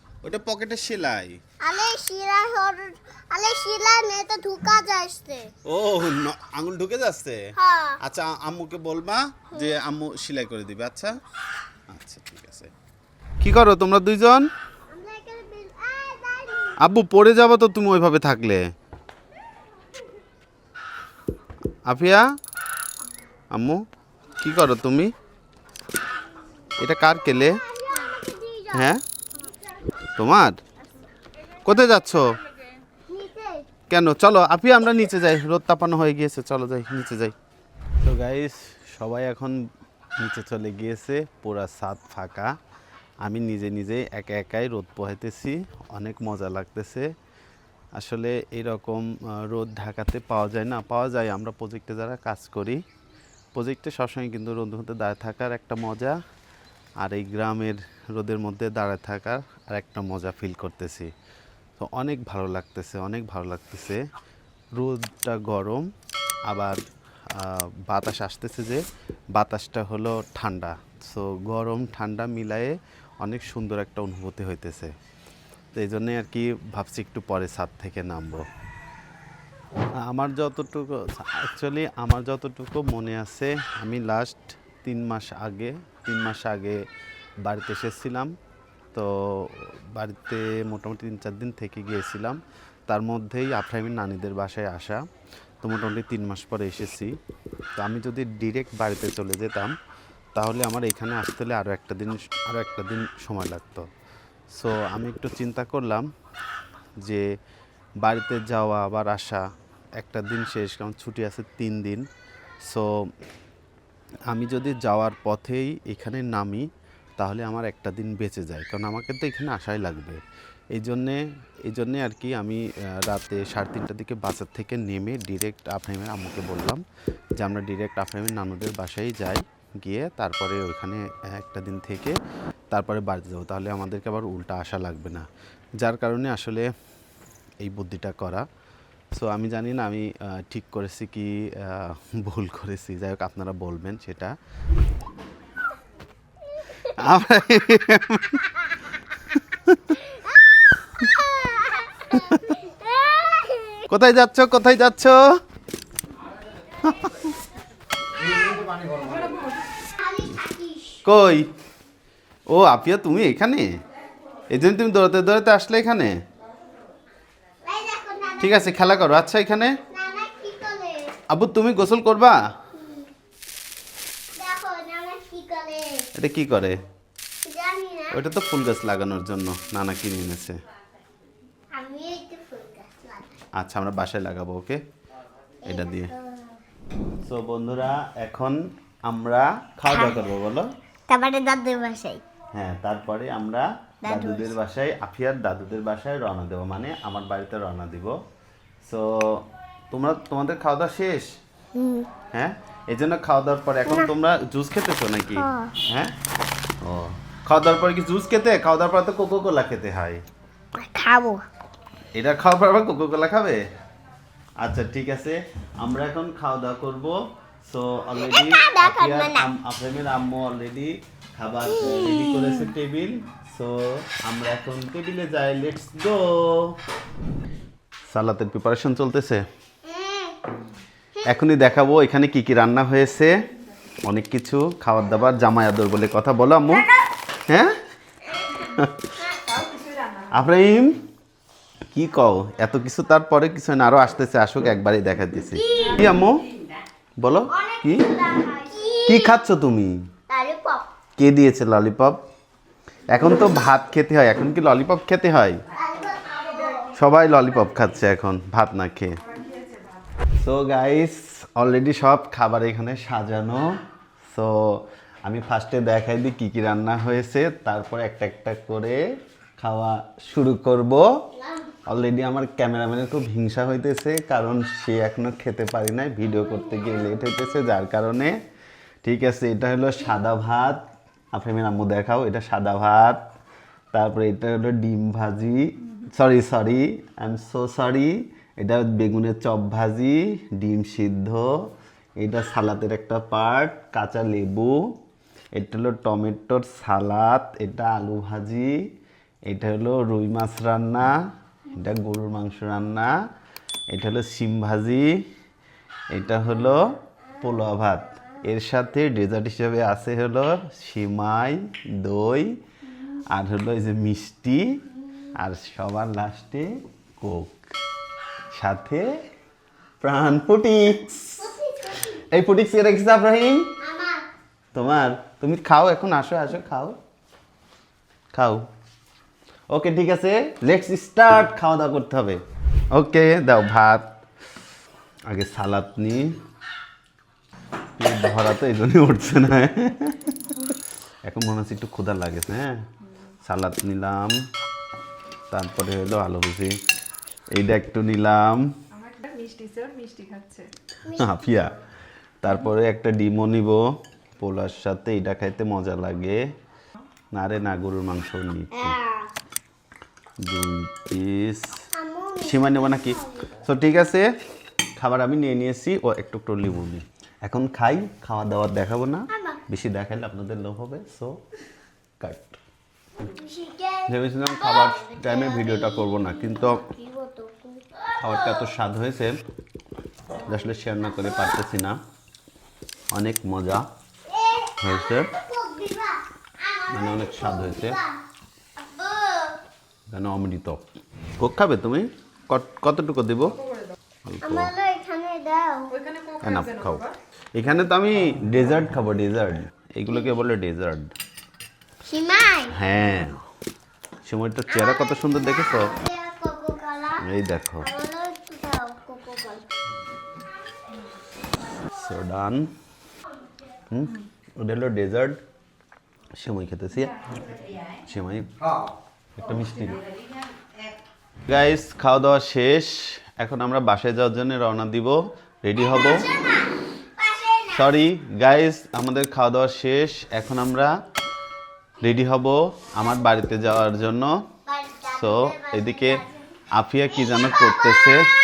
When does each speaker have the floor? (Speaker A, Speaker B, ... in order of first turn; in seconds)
Speaker A: 0.2-1.4, 5.7-7.4, 8.0-11.2, 11.9-12.7, 13.4-14.5, 16.8-18.7, 21.9-22.2, 23.5-23.8, 24.4-25.1, 26.8-27.6, 28.7-29.0, 30.2-30.6, 31.6-32.4, 33.9-37.4, 38.0-39.7, 40.2-42.5, 43.2-47.1, 48.0-52.8, 53.5-56.2, 57.0-61.1, 61.8-64.0, 64.8-65.9, 66.5-68.8, 69.3-74.9, 75.7-78.5, 80.0-86.8, 87.4-88.3, 88.9-95.0, 95.6-97.2, 97.8-99.8, 100.3-103.9, 104.5-106.1, 107.0-107.3, 108.0-109.4, 110.0-112.1, 112.6-112.9, 114.3-120.2, 120.7-126.8, 127.4-132.2, 132.7-135.3, 135.8-136.7, 137.6-138.4, 139.1-144.3, 146.9-148.5, 149.7-149.9, 153.9-155.2, 156.8-157.3, 161.0-161.5, 162.5-163.7, 164.5-166.2, 168.4-169.8, 171.3-172.4, 176.2-176.8, 178.1-180.6, 183.6-184.8, 185.7-186.1, 187.2-190.7, 192.5-198.2, 198.8-201.3, 202.3-206.1, 206.8-210.2, 212.2-213.6, 214.6-226.8, 228.1-229.4, 231.3-233.3, 234.0-236.9, 237.5-237.8, 238.5-239.1, 240.3-241.0, 241.9-246.4, 247.2-248.1, 249.1-250.1, 251.2-252.2, 253.1-255.6, 256.9-259.2, 260.4-263.8, 264.3-269.0, 269.6-271.1, 271.9-278.4, 279.0-283.3, 283.9-291.6, 292.2-294.9, 295.5-298.8, 299.5-301.1, 301.7-303.1, 303.9-305.2, 306.1-312.6, 313.3-314.8, 315.4-317.6, 318.5-319.1, 320.0-321.4, 322.3-323.7, 324.7-327.0, 328.3-328.6, 329.7-332.4, 332.9-334.1, 335.3-336.4, 338.0-340.7, 341.3-342.8, 343.4-344.4, 345.5-346.8, 347.5-348.6, 351.1-351.7, 352.4-353.9, 354.4-356.4, 357.3-359.0, 360.4-361.8, 362.4-364.3, 365.0-371.4, 372.2-372.6, 374.1-376.8, 378.2-379.4, 380.5-382.0, 383.1-383.9, 384.8-385.3, 386.9-388.0, 390.1-390.8, 391.4-393.6, 394.2-394.7, 396.4-401.1, 402.7-403.4, 404.2-405.9, 407.2-407.9, 411.9-412.7, 413.9-415.4, 416.4-417.2, 418.1-418.5, 419.4-420.0, 421.5-426.3, 427.7-430.9, 432.0-434.4, 435.1-438.3
Speaker B: 1.6-5.5, 7.5-8.0, 14.9-16.8, 27.1-29.5, 33.1-33.7, 146.5-146.9, 150.0-150.4, 151.0-153.9, 159.8-161.1, 167.6-168.8, 169.9-171.2, 172.7-173.1, 174.4-176.1, 177.4-178.2, 181.7-183.4, 185.6-186.6, 189.9-190.3, 191.1-192.2, 194.0-194.6, 201.8-202.1, 205.3-205.8, 210.8-211.4, 218.1-219.5, 221.7-222.7, 229.8-230.4, 231.2-231.4, 239.2-239.5, 245.5-246.1, 247.5-249.4, 250.3-250.9, 255.7-256.9, 271.3-271.8, 321.4-322.2, 323.8-324.2, 351.1-351.8, 358.7-359.3, 361.9-363.6, 369.3-369.6, 373.2-378.7, 384.3-388.2, 388.8-389.6, 394.4-395.9, 400.1-400.5, 402.0-402.8, 404.7-409.7, 425.8-427.9, 434.7-436.3, 437.1-438.2
Speaker C: 158.9-159.7, 239.5-240.3, 348.9-350.7, 395.9-397.1